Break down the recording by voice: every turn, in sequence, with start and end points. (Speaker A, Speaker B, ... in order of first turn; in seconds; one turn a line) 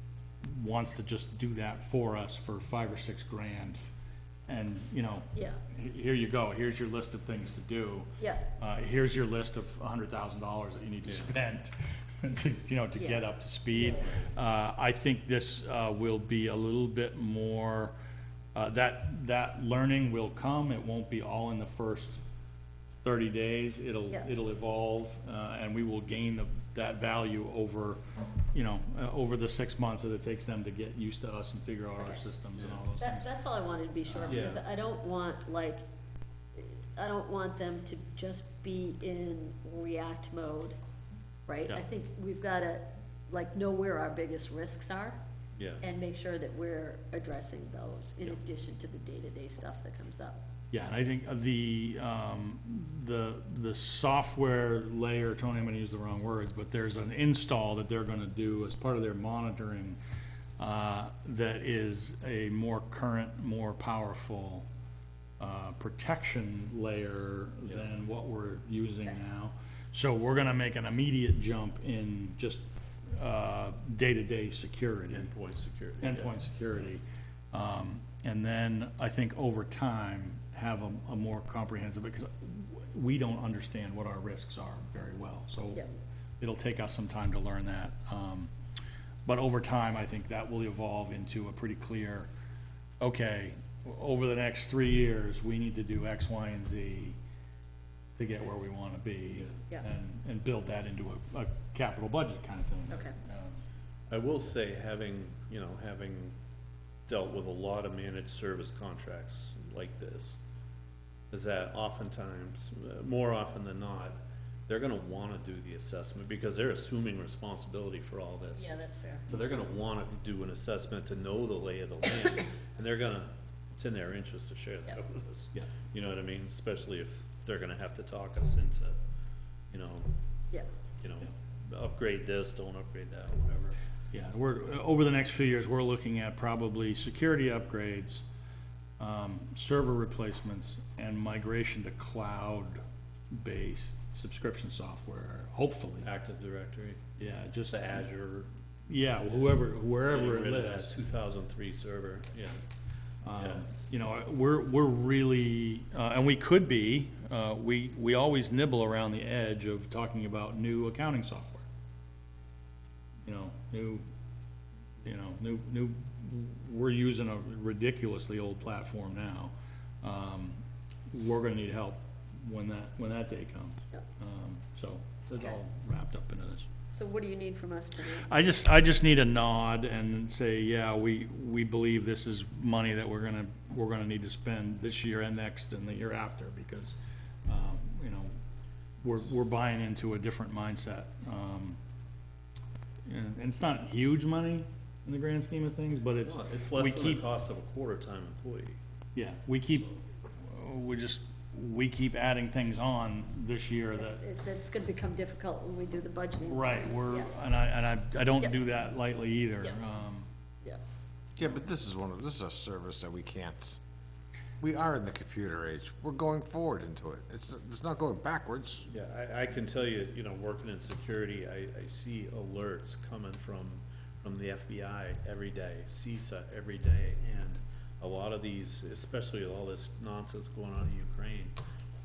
Speaker A: 0.4-3.8
Speaker A: 4.5-17.9
Speaker B: 5.3-5.6
Speaker B: 8.2-8.5
Speaker B: 13.0-14.1
Speaker A: 18.5-22.2
Speaker A: 23.0-28.0
Speaker A: 28.5-33.3
Speaker C: 32.6-32.8
Speaker B: 33.0-35.8
Speaker A: 34.1-34.5
Speaker C: 34.3-34.6
Speaker B: 36.5-40.8
Speaker B: 41.5-45.2
Speaker C: 45.6-45.8
Speaker B: 45.8-50.4
Speaker A: 50.7-60.0
Speaker A: 60.6-64.7
Speaker A: 65.4-72.6
Speaker A: 73.1-75.3
Speaker C: 75.1-76.4
Speaker A: 76.0-85.8
Speaker A: 86.4-88.5
Speaker A: 89.3-92.3
Speaker A: 93.0-97.2
Speaker A: 98.2-103.6
Speaker B: 102.9-103.2
Speaker C: 104.1-106.3
Speaker C: 107.1-110.4
Speaker C: 111.3-118.7
Speaker B: 118.6-119.3
Speaker C: 119.3-128.9
Speaker C: 129.7-130.1
Speaker C: 131.0-133.8
Speaker A: 134.1-138.2
Speaker A: 139.0-146.1
Speaker C: 146.0-147.0
Speaker A: 147.2-147.9
Speaker C: 147.7-148.5
Speaker A: 148.9-150.9
Speaker C: 150.1-152.6
Speaker A: 153.2-161.7
Speaker C: 153.3-153.7
Speaker A: 163.3-164.0
Speaker A: 165.0-170.6
Speaker A: 171.1-176.7
Speaker B: 176.9-178.3
Speaker A: 178.2-188.3
Speaker A: 189.0-191.8
Speaker A: 193.1-197.2
Speaker C: 196.2-198.8
Speaker A: 199.2-204.2
Speaker B: 204.0-207.3
Speaker A: 206.5-210.3
Speaker D: 211.4-213.8
Speaker D: 214.6-218.9
Speaker C: 218.9-231.5